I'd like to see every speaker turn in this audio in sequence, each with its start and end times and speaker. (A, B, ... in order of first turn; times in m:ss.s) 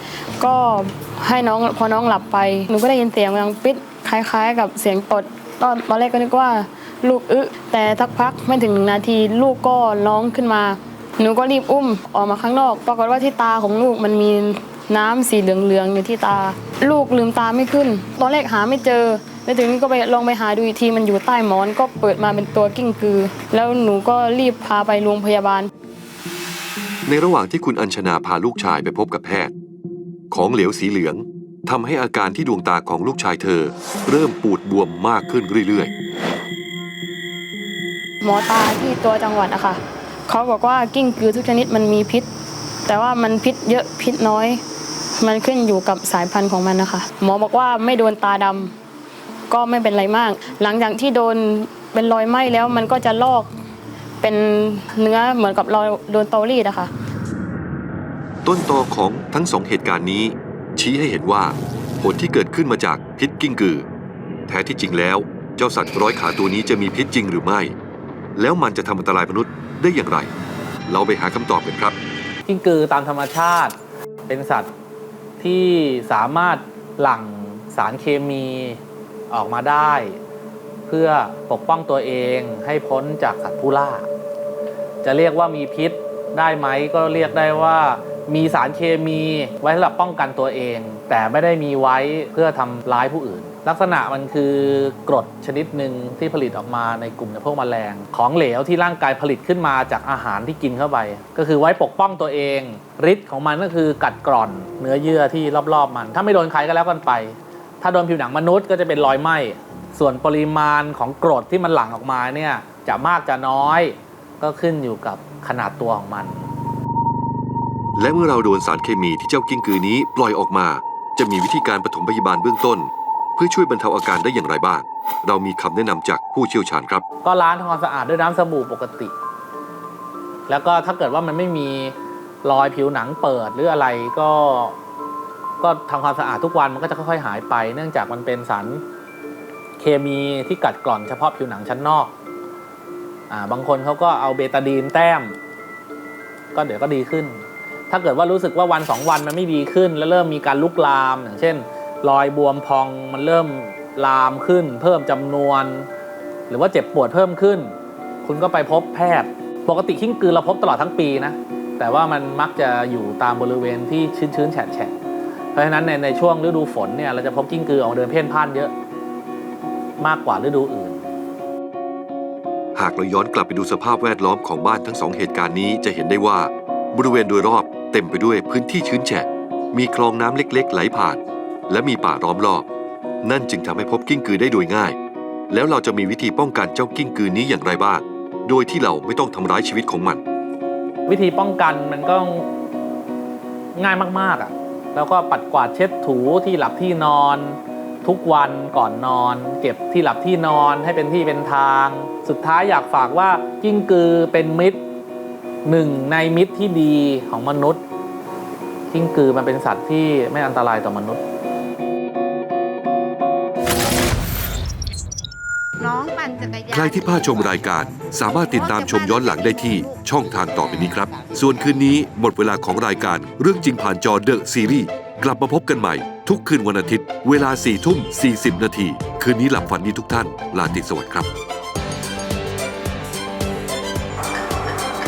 0:00.4-0:25.7 A
0:27.1-0:29.5 B
0:30.3-0:35.9 B
0:38.2-0:42.3 A
0:42.9-0:44.6 A
0:45.2-0:48.7 A
0:49.5-0:53.5 A
0:54.2-0:56.9 A
0:58.4-1:03.9 B
1:04.5-1:07.8 B
1:08.4-1:10.3 B
1:10.9-1:12.0 B
1:12.5-1:13.7 C
1:14.3-1:14.7 C
1:15.4-1:18.8 C
1:19.3-1:20.2 C
1:20.9-1:24.1 C
1:25.0-1:56.5 C
1:58.0-2:07.0 B
2:07.2-2:09.1 C
2:10.5-2:14.8 C
2:15.6-2:18.8 C
2:19.8-2:22.1 C
2:23.3-2:25.4 C
2:26.5-2:35.9 C
2:36.5-2:44.9 C
2:45.5-2:48.7 C
2:50.0-2:51.0 C
2:52.8-3:02.7 B
3:03.2-3:05.0 B
3:05.5-3:10.2 B
3:11.1-3:12.5 C
3:13.8-3:24.8 C
3:25.6-3:27.8 C
3:28.9-3:31.2 C
3:35.8-3:37.7 D
3:36.7-3:51.3 B
3:38.3-3:40.0 D